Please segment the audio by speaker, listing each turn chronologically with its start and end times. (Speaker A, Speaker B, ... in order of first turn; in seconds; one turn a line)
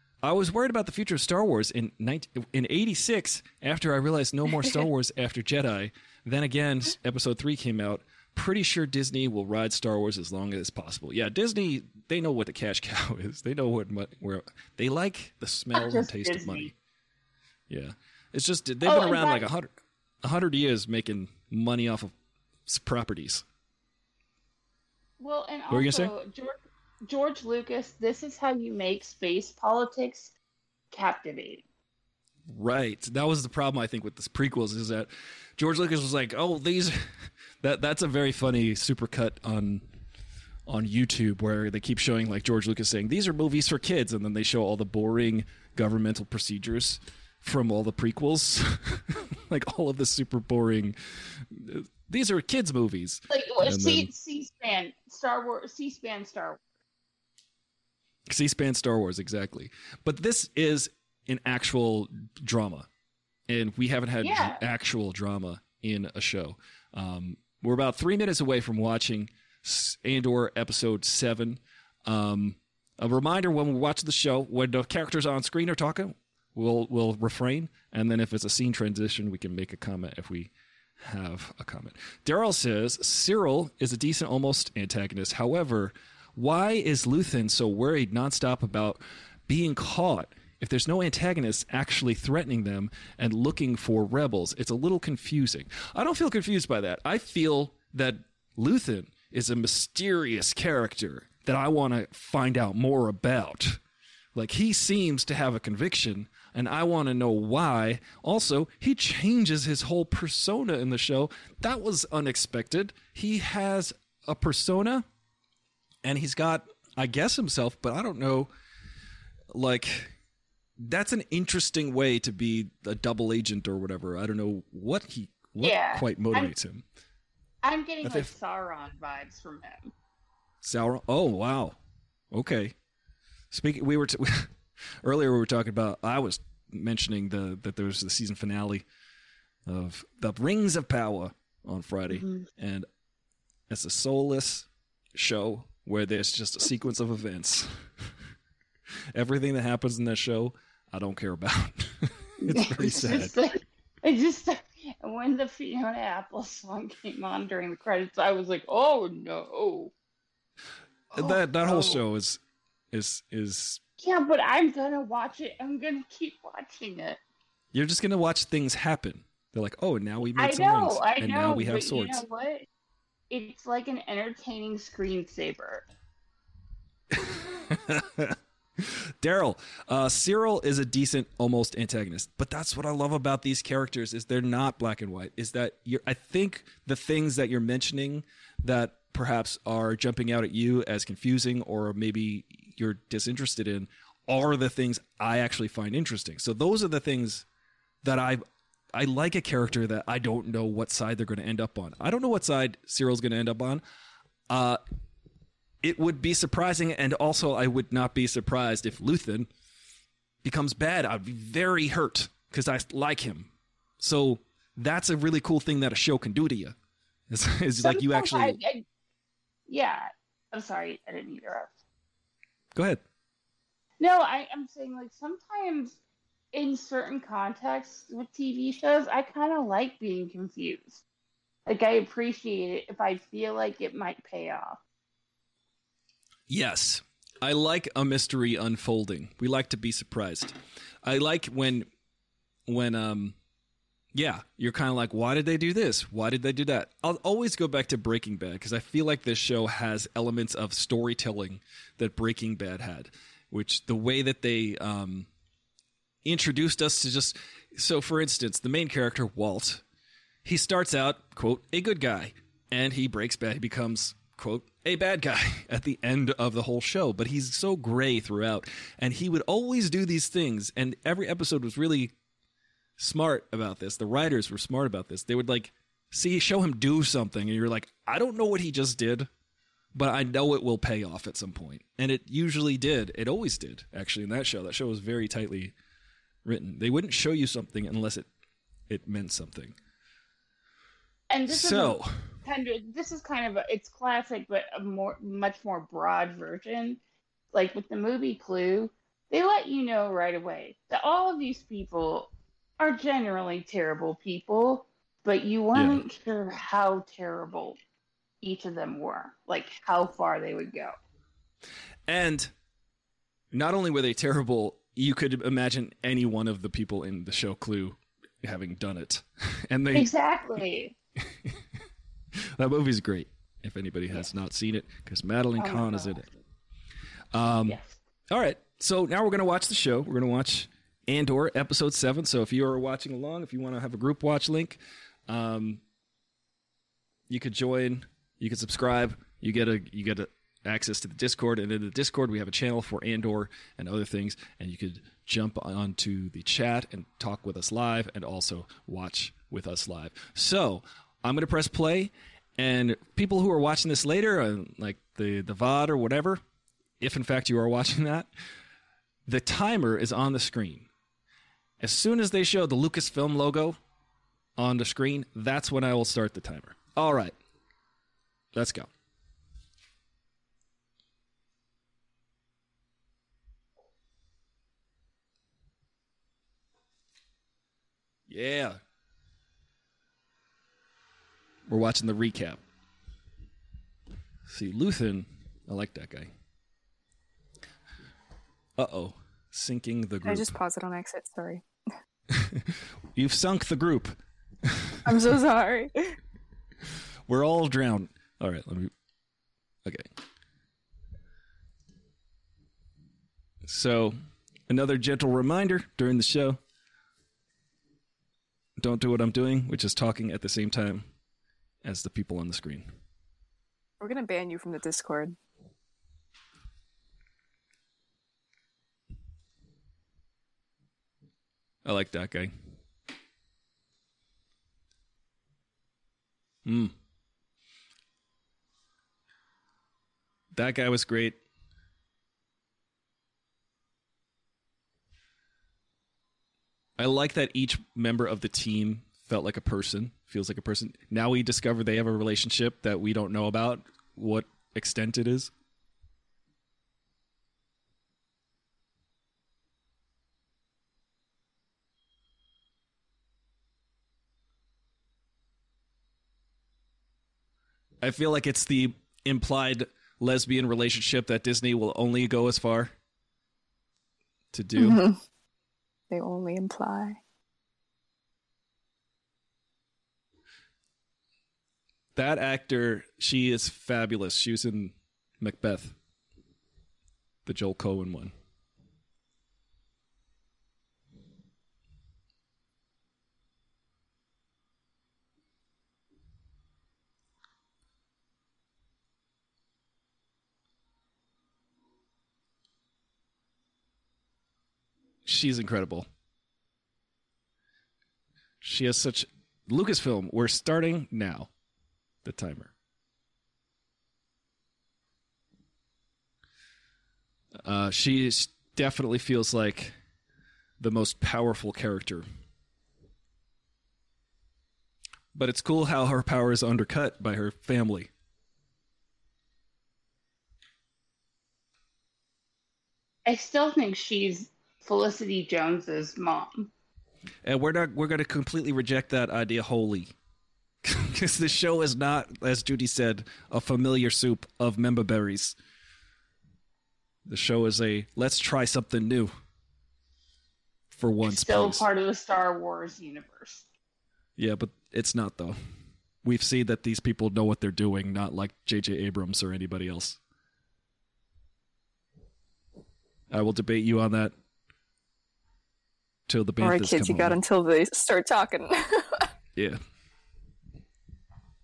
Speaker A: 0.2-16.7
Speaker B: 15.7-16.7
Speaker A: 17.7-19.7
Speaker B: 18.8-19.5
Speaker A: 20.2-22.1
Speaker A: 22.7-23.4
Speaker B: 25.2-30.3
Speaker A: 25.7-26.1
Speaker B: 30.9-31.6
Speaker A: 32.5-37.0
Speaker A: 37.6-39.9
Speaker A: 40.7-54.1
Speaker B: 53.3-56.6
Speaker A: 58.3-62.9
Speaker A: 63.5-103.8
Speaker B: 64.2-64.6
Speaker A: 104.3-115.0
Speaker A: 116.0-118.5
Speaker A: 119.5-120.1
Speaker A: 120.8-126.8
Speaker B: 125.6-126.5
Speaker B: 127.6-129.9
Speaker A: 128.0-128.3
Speaker A: 130.6-131.8
Speaker A: 132.3-132.7
Speaker A: 133.5-138.8
Speaker A: 139.7-142.9
Speaker B: 142.1-142.5
Speaker A: 143.7-147.8
Speaker A: 149.1-153.3
Speaker B: 152.4-159.9
Speaker A: 161.1-162.4
Speaker B: 161.2-162.0
Speaker A: 162.9-163.8
Speaker B: 164.0-167.2
Speaker A: 167.7-172.2
Speaker B: 170.4-172.7
Speaker B: 173.3-175.9
Speaker A: 177.1-197.5
Speaker A: 198.0-198.4
Speaker A: 198.9-203.8
Speaker A: 204.5-204.8
Speaker A: 205.8-209.5
Speaker A: 210.4-216.8
Speaker A: 217.3-218.6
Speaker B: 217.8-218.8
Speaker B: 219.7-221.7
Speaker A: 222.8-223.0
Speaker B: 224.0-226.0
Speaker B: 226.5-231.0
Speaker B: 231.7-234.8
Speaker A: 236.5-241.9
Speaker A: 242.7-243.4
Speaker A: 244.1-255.3
Speaker A: 256.2-259.8
Speaker A: 260.4-272.1
Speaker A: 273.0-279.3
Speaker A: 279.9-285.8
Speaker A: 286.4-288.3
Speaker A: 288.9-289.8
Speaker B: 291.3-297.0
Speaker A: 291.5-292.4
Speaker B: 297.5-307.8
Speaker A: 305.7-306.0
Speaker B: 308.4-310.9
Speaker A: 312.1-312.5
Speaker A: 313.5-320.1
Speaker B: 319.9-320.9
Speaker A: 321.3-321.6
Speaker A: 322.4-326.3
Speaker B: 325.6-326.4
Speaker A: 327.3-327.8
Speaker B: 327.7-328.0
Speaker A: 328.3-335.8
Speaker A: 337.3-356.4
Speaker A: 357.0-358.3
Speaker A: 359.3-360.9
Speaker A: 361.8-363.8
Speaker A: 364.6-367.4
Speaker A: 368.5-368.9
Speaker A: 378.3-378.8
Speaker A: 381.7-382.6
Speaker A: 384.5-386.3
Speaker A: 388.8-390.6
Speaker C: 390.2-391.6
Speaker A: 392.3-395.1
Speaker C: 395.1-396.2
Speaker A: 397.3-398.9
Speaker A: 403.7-404.2
Speaker A: 404.7-406.6
Speaker A: 408.8-411.1
Speaker A: 411.8-412.9
Speaker C: 414.0-415.4
Speaker A: 421.9-422.5
Speaker A: 426.6-426.9
Speaker A: 430.5-431.4
Speaker A: 437.0-445.5
Speaker A: 458.0-462.9
Speaker A: 464.5-465.0
Speaker C: 464.8-465.2
Speaker C: 466.1-467.2
Speaker A: 472.2-476.0
Speaker A: 477.4-478.3
Speaker A: 495.2-496.1
Speaker A: 498.6-501.5
Speaker A: 502.2-502.7
Speaker A: 507.6-509.9
Speaker A: 510.8-512.3
Speaker A: 515.3-518.1
Speaker B: 523.3-526.7
Speaker A: 527.4-530.1
Speaker A: 530.8-535.6
Speaker A: 537.3-539.3
Speaker A: 540.9-541.8
Speaker B: 541.2-543.6
Speaker A: 544.4-545.6
Speaker A: 546.2-550.2
Speaker A: 553.3-554.3
Speaker A: 556.3-557.4
Speaker C: 556.6-559.3